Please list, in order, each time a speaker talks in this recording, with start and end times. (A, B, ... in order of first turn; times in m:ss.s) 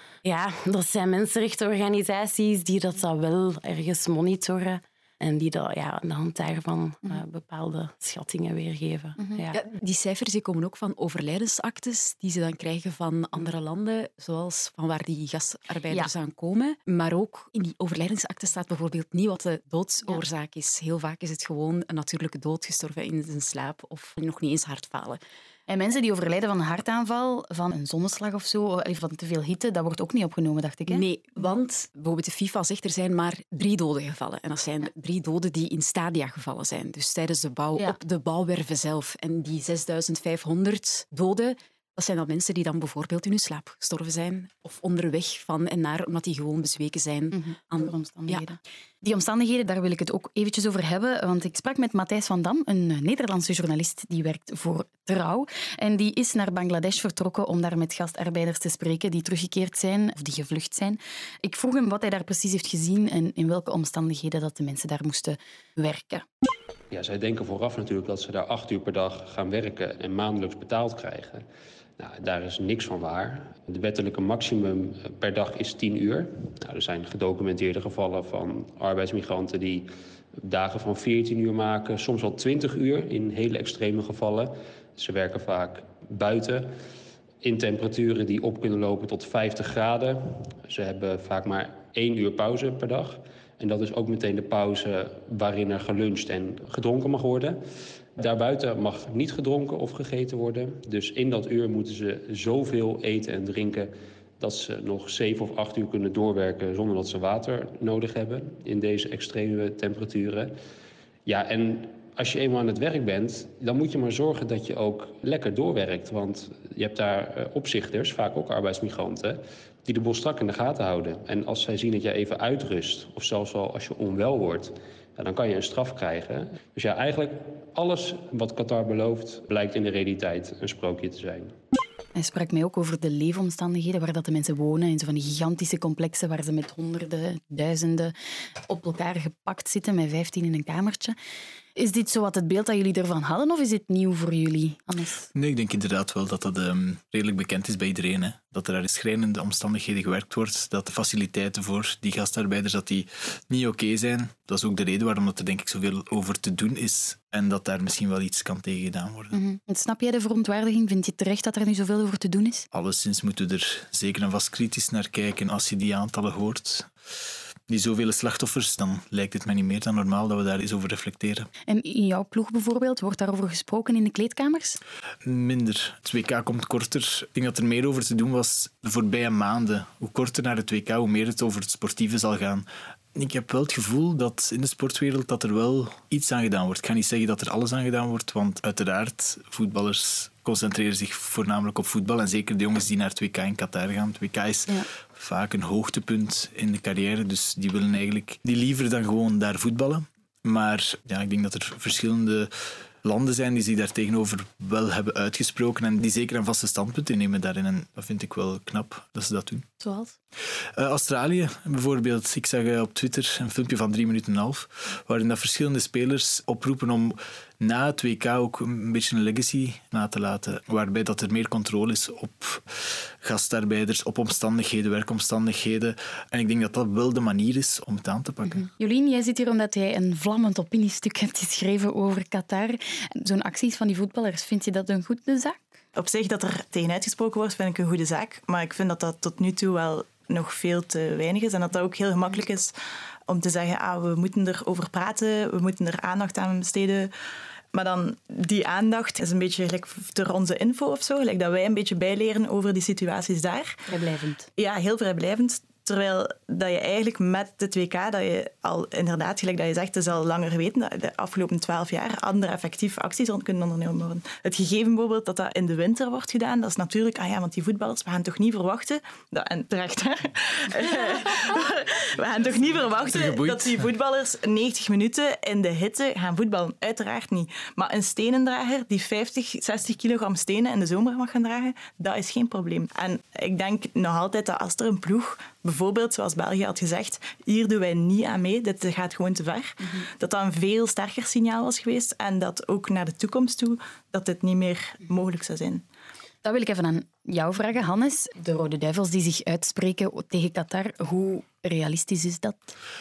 0:00.2-0:09.6 A
0:09.5-0:25.2 B
0:25.7-0:31.0 C
0:30.9-0:48.5 B
0:47.3-1:06.2 C
1:06.9-1:11.4 D
1:12.0-1:26.7 D
1:27.4-1:37.6 D
1:38.2-1:50.5 D
1:51.2-2:11.6 D
2:12.2-2:18.1 C
2:18.7-2:21.2 C
2:21.8-2:25.3 C
2:25.3-2:39.4 E
2:39.3-2:42.7 C
2:42.7-2:46.9 E
2:47.7-2:51.5 E
2:51.7-2:54.8 C
2:55.2-3:22.5 E
3:23.0-3:29.7 E
3:29.8-3:30.2 C
3:30.8-3:48.7 E
3:48.8-3:55.8 C
3:56.0-4:02.7 F
4:03.3-4:07.1 F
4:07.7-4:13.8 F
4:13.9-4:14.5 C
4:14.6-4:55.8 F
4:33.1-4:33.8 E
4:56.4-5:02.8 C